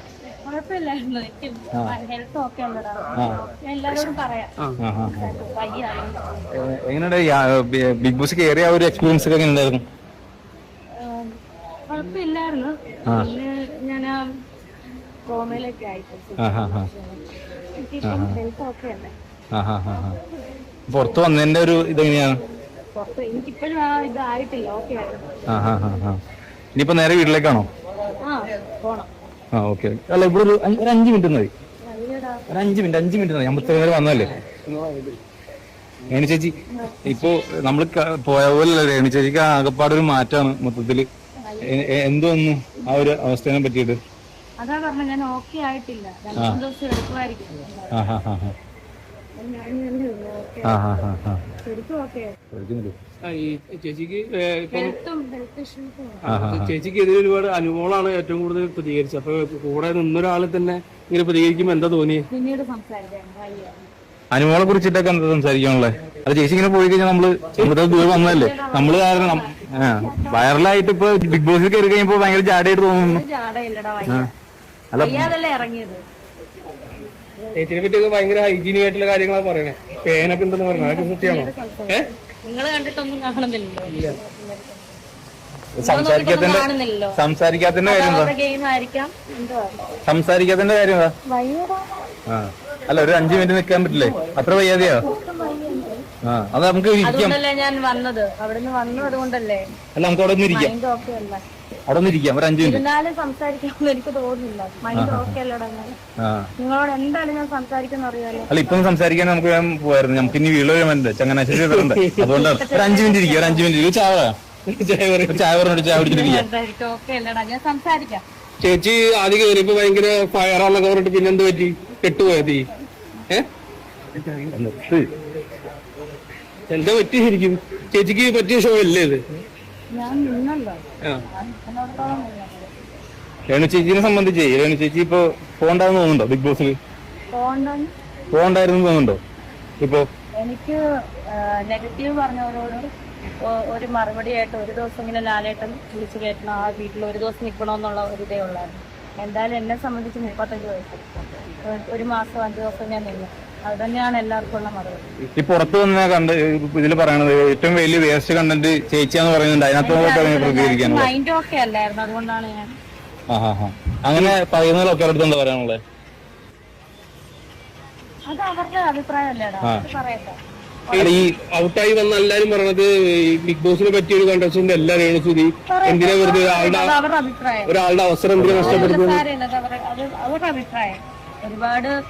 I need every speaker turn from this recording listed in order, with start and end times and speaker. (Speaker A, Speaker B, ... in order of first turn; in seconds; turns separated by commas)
Speaker A: 0.2-4.5, Speaker B: 4.8-5.4, Speaker A: 5.0-6.5, Speaker B: 6.5-9.8, Speaker A: 10.9-14.2, Speaker A: 15.2-17.2, Speaker B: 16.4-16.9, Speaker A: 17.7-19.1, Speaker B: 18.0-18.4, Speaker B: 19.5-20.2, Speaker A: 19.9-20.3, Speaker B: 20.9-22.4, Speaker A: 22.9-25.3, Speaker B: 25.5-26.2, Speaker B: 26.8-27.7, Speaker A: 28.2-29.1, Speaker B: 29.5-31.5, Speaker A: 31.8-32.5, Speaker B: 32.5-34.3, Speaker C: 34.5-35.2, Speaker B: 36.1-36.5, Speaker A: 36.7-37.2, Speaker B: 37.0-41.0, Speaker A: 41.4-42.0, Speaker B: 41.6-44.0, Speaker A: 44.6-48.0, Speaker B: 47.9-48.5, Speaker A: 49.4-50.9, Speaker B: 50.6-51.5, Speaker A: 51.6-52.4, Speaker B: 52.5-53.0, Speaker C: 53.2-55.0, Speaker A: 54.7-56.4, Speaker C: 56.2-62.2, Speaker B: 56.3-56.7, Speaker A: 62.3-63.8, Speaker B: 64.3-73.2, Speaker C: 67.6-68.3, Speaker A: 68.0-70.5, Speaker A: 73.0-74.3, Speaker B: 74.9-75.3, Speaker A: 75.0-76.0, Speaker C: 77.5-82.1, Speaker A: 80.7-85.0, Speaker C: 83.9-84.2, Speaker B: 85.8-88.3, Speaker A: 85.8-87.2, Speaker A: 87.8-89.9, Speaker B: 90.0-91.1, Speaker A: 91.3-92.1, Speaker B: 92.3-95.0, Speaker A: 93.9-96.0, Speaker B: 96.2-97.4, Speaker A: 97.0-99.6, Speaker B: 100.0-100.7, Speaker A: 100.5-101.4, Speaker B: 101.9-102.8, Speaker A: 102.6-106.0, Speaker B: 104.9-105.3, Speaker B: 106.2-106.5, Speaker A: 106.6-108.6, Speaker B: 108.5-114.3, Speaker C: 111.5-112.4, Speaker A: 112.3-113.7, Speaker C: 114.7-115.4, Speaker B: 115.3-116.5, Speaker A: 115.9-118.2, Speaker C: 118.6-122.7, Speaker C: 124.2-124.5, Speaker B: 124.5-125.1, Speaker C: 126.7-129.2, Speaker A: 129.9-132.7, Speaker B: 133.5-136.8, Speaker A: 137.3-137.9, Speaker B: 138.3-139.2, Speaker A: 140.4-142.9, Speaker A: 143.4-151.1, Speaker A: 151.6-155.0, Speaker B: 155.3-161.1, Speaker A: 159.8-162.7, Speaker B: 163.3-165.8, Speaker A: 168.3-171.2, Speaker C: 170.9-176.9, Speaker B: 170.9-171.2, Speaker A: 175.7-177.7, Speaker C: 177.7-179.2, Speaker B: 178.4-179.0, Speaker A: 178.6-181.9